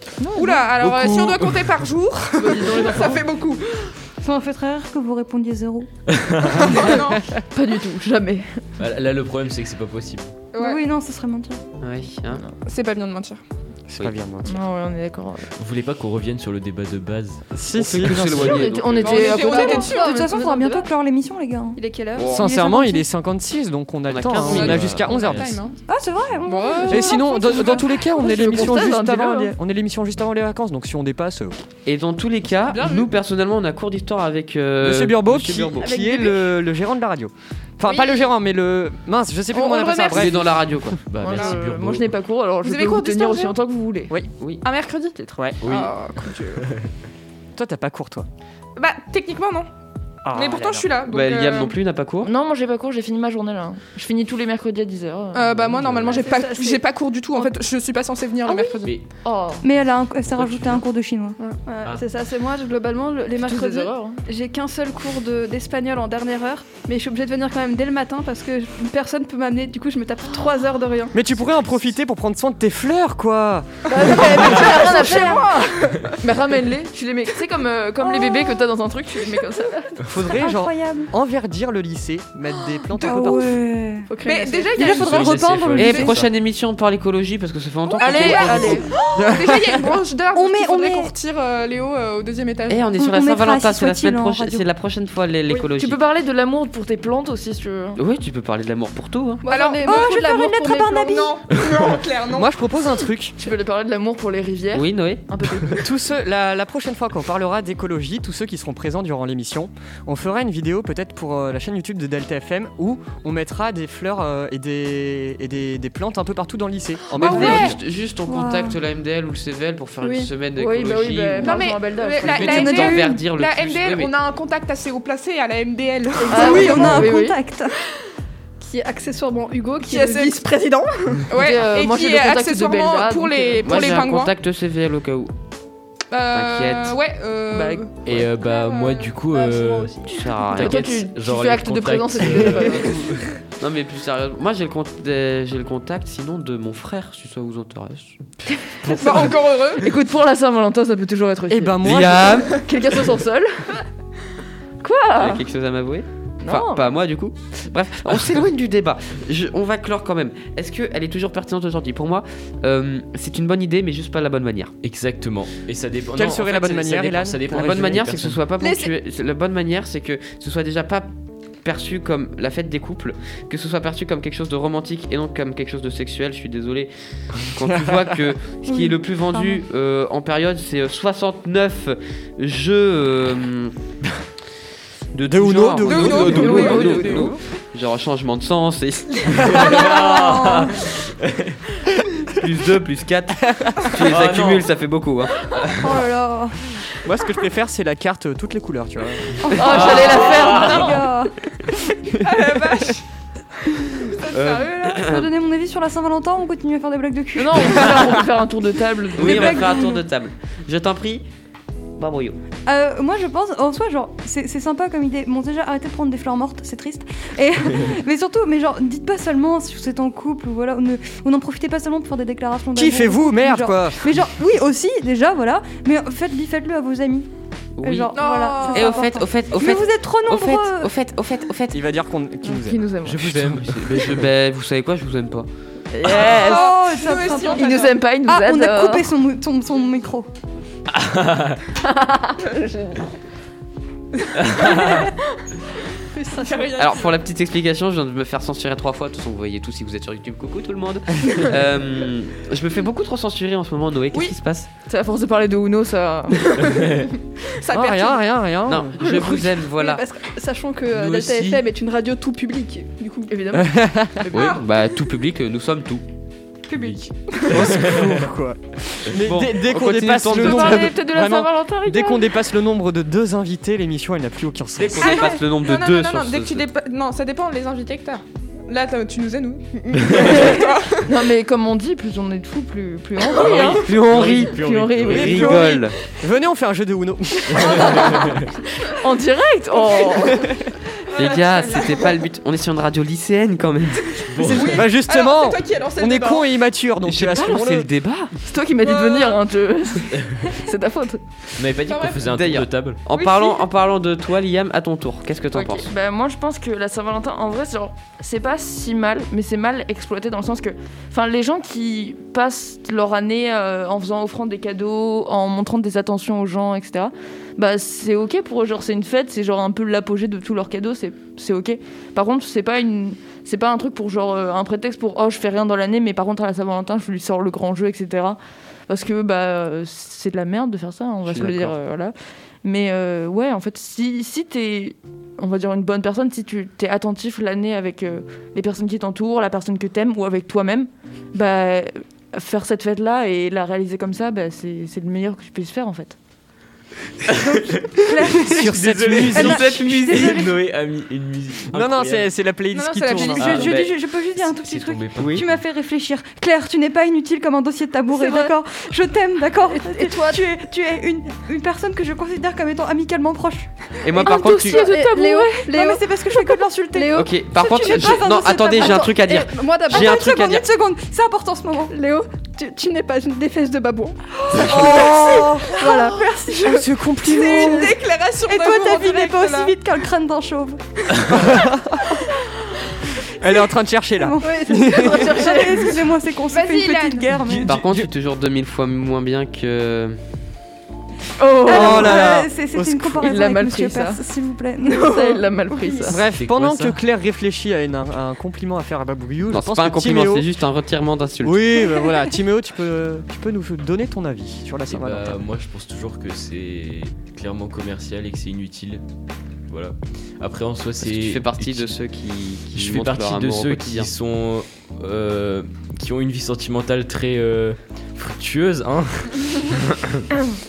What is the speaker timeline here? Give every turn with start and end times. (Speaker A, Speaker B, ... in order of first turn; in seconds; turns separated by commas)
Speaker A: 0.2-0.7, Speaker B: 0.3-3.9, Speaker C: 0.8-1.5, Speaker A: 2.3-3.2, Speaker D: 4.2-5.9, Speaker E: 6.1-6.5, Speaker B: 6.6-7.3, Speaker A: 6.7-8.6, Speaker E: 8.8-10.4, Speaker B: 10.5-10.8, Speaker D: 10.6-11.6, Speaker C: 11.8-12.4, Speaker B: 12.6-13.4, Speaker F: 13.9-14.6, Speaker A: 14.4-15.5, Speaker E: 15.6-18.6, Speaker F: 17.5-18.7, Speaker C: 17.7-19.4, Speaker A: 18.4-20.4, Speaker B: 19.0-20.2, Speaker G: 19.1-20.9, Speaker D: 19.5-23.0, Speaker G: 21.7-22.3, Speaker C: 22.1-22.4, Speaker F: 22.3-25.6, Speaker C: 24.1-25.0, Speaker B: 24.4-25.8, Speaker E: 24.5-25.6, Speaker D: 25.9-28.1, Speaker B: 26.4-27.8, Speaker F: 26.9-31.6, Speaker A: 28.1-29.5, Speaker C: 31.9-35.9, Speaker B: 32.7-33.1, Speaker F: 34.8-40.4, Speaker G: 35.8-36.5, Speaker G: 37.9-38.2, Speaker B: 39.5-40.4, Speaker C: 40.1-41.0, Speaker E: 40.9-42.1, Speaker A: 41.2-44.1, Speaker B: 41.2-41.5, Speaker B: 42.6-43.6, Speaker C: 44.4-44.6, Speaker B: 44.6-46.7, Speaker F: 45.3-45.6, Speaker E: 45.6-45.9, Speaker E: 46.6-46.9, Speaker F: 47.5-48.3, Speaker B: 48.8-49.7, Speaker F: 50.2-50.9, Speaker B: 50.3-51.8, Speaker C: 51.1-52.3, Speaker A: 52.2-56.2, Speaker B: 55.3-58.9, Speaker G: 56.1-57.5, Speaker A: 58.5-59.6, Speaker D: 59.6-61.4, Speaker E: 60.4-60.8, Speaker G: 61.6-71.2, Speaker A: 63.4-64.2, Speaker F: 71.1-74.5, Speaker G: 73.9-76.1, Speaker A: 73.9-79.9, Speaker F: 80.0-83.6, Speaker D: 80.2-81.1, Speaker D: 83.0-84.1, Speaker G: 84.1-85.0, Speaker B: 84.2-85.4, Speaker D: 84.7-86.2, Speaker E: 84.9-86.3, Speaker C: 85.8-88.8, Speaker B: 87.9-92.9, Speaker A: 88.0-88.9, Speaker F: 89.1-89.8, Speaker D: 90.3-91.1, Speaker C: 92.7-96.0, Speaker D: 92.9-94.7, Speaker A: 95.7-98.0, Speaker C: 98.0-99.5, Speaker G: 99.4-101.2, Speaker B: 99.5-100.2, Speaker D: 99.8-101.3, Speaker B: 101.0-102.5, Speaker F: 102.3-103.3, Speaker A: 103.4-105.9, Speaker C: 104.7-105.2, Speaker F: 105.7-117.8, Speaker C: 117.2-124.1, Speaker B: 117.2-117.7, Speaker D: 117.4-117.7, Speaker D: 118.3-118.8, Speaker G: 120.0-120.3, Speaker A: 120.5-122.7, Speaker B: 121.4-127.0, Speaker D: 122.4-123.2, Speaker G: 126.2-127.0, Speaker A: 126.3-127.4, Speaker D: 126.3-127.7, Speaker G: 128.6-131.2, Speaker B: 129.8-130.4, Speaker B: 131.3-134.3, Speaker A: 131.3-134.1, Speaker C: 133.6-135.3, Speaker B: 136.1-139.2, Speaker C: 136.3-136.9, Speaker A: 137.5-137.8, Speaker C: 138.0-138.3, Speaker E: 138.1-140.0, Speaker G: 139.2-140.4, Speaker C: 140.1-141.0, Speaker A: 140.5-143.1, Speaker E: 140.5-143.3, Speaker C: 143.6-148.2, Speaker B: 148.9-149.9, Speaker A: 148.9-153.7, Speaker F: 151.5-152.5, Speaker C: 151.8-152.6, Speaker A: 154.8-155.4, Speaker C: 155.2-164.8, Speaker A: 156.4-156.9, Speaker E: 164.8-168.4, Speaker F: 166.1-168.0, Speaker C: 167.5-171.1, Speaker G: 168.6-168.9, Speaker C: 171.6-183.8, Speaker F: 177.6-178.3, Speaker D: 178.7-179.6, Speaker C: 185.1-190.1, Speaker F: 185.2-187.1, Speaker B: 185.8-187.4, Speaker A: 186.3-187.4, Speaker E: 189.3-191.6, Speaker C: 192.3-195.5, Speaker E: 194.0-194.7, Speaker E: 195.5-196.0, Speaker D: 195.8-196.7, Speaker F: 197.0-199.6, Speaker D: 199.4-201.3, Speaker A: 199.5-201.0, Speaker E: 199.6-201.0, Speaker B: 202.1-203.0, Speaker B: 203.6-205.0, Speaker C: 204.3-205.3, Speaker D: 204.9-208.2, Speaker A: 207.3-209.6, Speaker C: 209.2-211.3, Speaker D: 209.2-210.0, Speaker C: 212.0-212.4, Speaker D: 212.7-227.3, Speaker F: 222.8-224.1, Speaker C: 227.8-228.2, Speaker D: 227.8-230.9, Speaker B: 228.1-229.1, Speaker C: 228.7-231.8, Speaker F: 231.7-232.8, Speaker A: 232.4-233.2, Speaker E: 233.0-234.3, Speaker C: 233.2-235.5, Speaker A: 235.9-236.8, Speaker B: 236.1-238.0, Speaker D: 236.3-240.3, Speaker A: 237.5-239.1, Speaker E: 240.9-241.6, Speaker A: 241.8-243.0, Speaker E: 244.3-245.1, Speaker G: 246.2-246.7, Speaker B: 246.3-247.1, Speaker C: 246.8-254.7, Speaker A: 254.8-256.8, Speaker B: 257.6-258.3, Speaker F: 257.7-259.3, Speaker C: 258.6-260.0, Speaker G: 259.0-263.3, Speaker E: 260.9-261.6, Speaker A: 263.3-264.6, Speaker F: 263.5-264.3, Speaker C: 264.3-266.0, Speaker B: 264.3-264.6, Speaker E: 266.7-268.2, Speaker D: 266.7-267.0, Speaker F: 267.5-275.2, Speaker C: 269.2-270.9, Speaker A: 270.4-272.3, Speaker C: 274.8-276.6, Speaker D: 275.0-275.4, Speaker B: 275.2-281.1, Speaker A: 280.1-285.8, Speaker E: 283.3-285.5, Speaker C: 283.6-286.0, Speaker F: 285.1-288.0, Speaker E: 287.6-288.5, Speaker A: 287.6-288.4, Speaker A: 288.9-290.5, Speaker B: 290.0-290.3, Speaker B: 291.1-292.0, Speaker C: 291.1-294.6, Speaker E: 294.2-294.9, Speaker F: 294.4-297.9, Speaker B: 294.5-296.6, Speaker C: 297.0-298.3, Speaker A: 298.4-301.2, Speaker B: 298.8-299.4, Speaker E: 301.6-303.0, Speaker B: 301.9-302.3, Speaker C: 302.3-305.9, Speaker D: 303.2-303.6, Speaker A: 305.5-346.2, Speaker C: 331.2-331.7, Speaker E: 347.3-352.3, Speaker D: 347.3-350.6, Speaker F: 348.4-349.9, Speaker C: 350.1-350.4, Speaker F: 351.7-353.7, Speaker B: 352.7-353.4, Speaker D: 353.1-369.2, Speaker E: 353.4-355.4, Speaker C: 355.2-355.4, Speaker G: 358.1-358.5, Speaker G: 359.6-360.5, Speaker C: 364.0-364.9, Speaker A: 364.2-365.4, Speaker G: 364.2-368.2, Speaker C: 367.1-370.7, Speaker G: 368.8-370.2, Speaker D: 369.9-371.9, Speaker G: 371.9-376.8, Speaker D: 374.5-376.8, Speaker F: 376.6-378.0, Speaker B: 377.2-379.8, Speaker D: 377.4-377.9, Speaker D: 378.4-380.8, Speaker F: 381.2-382.1, Speaker F: 383.3-385.4, Speaker D: 384.2-387.7, Speaker G: 384.4-387.2, Speaker E: 387.3-388.1, Speaker C: 387.6-390.2, Speaker A: 391.4-392.4, Speaker D: 391.6-396.1, Speaker F: 391.7-393.3, Speaker A: 393.2-394.2, Speaker A: 394.8-396.2, Speaker F: 396.1-400.5, Speaker E: 396.4-397.0, Speaker C: 399.5-401.8, Speaker F: 401.4-405.4, Speaker E: 404.9-409.0, Speaker E: 409.7-411.9, Speaker C: 411.0-414.1, Speaker E: 412.7-420.2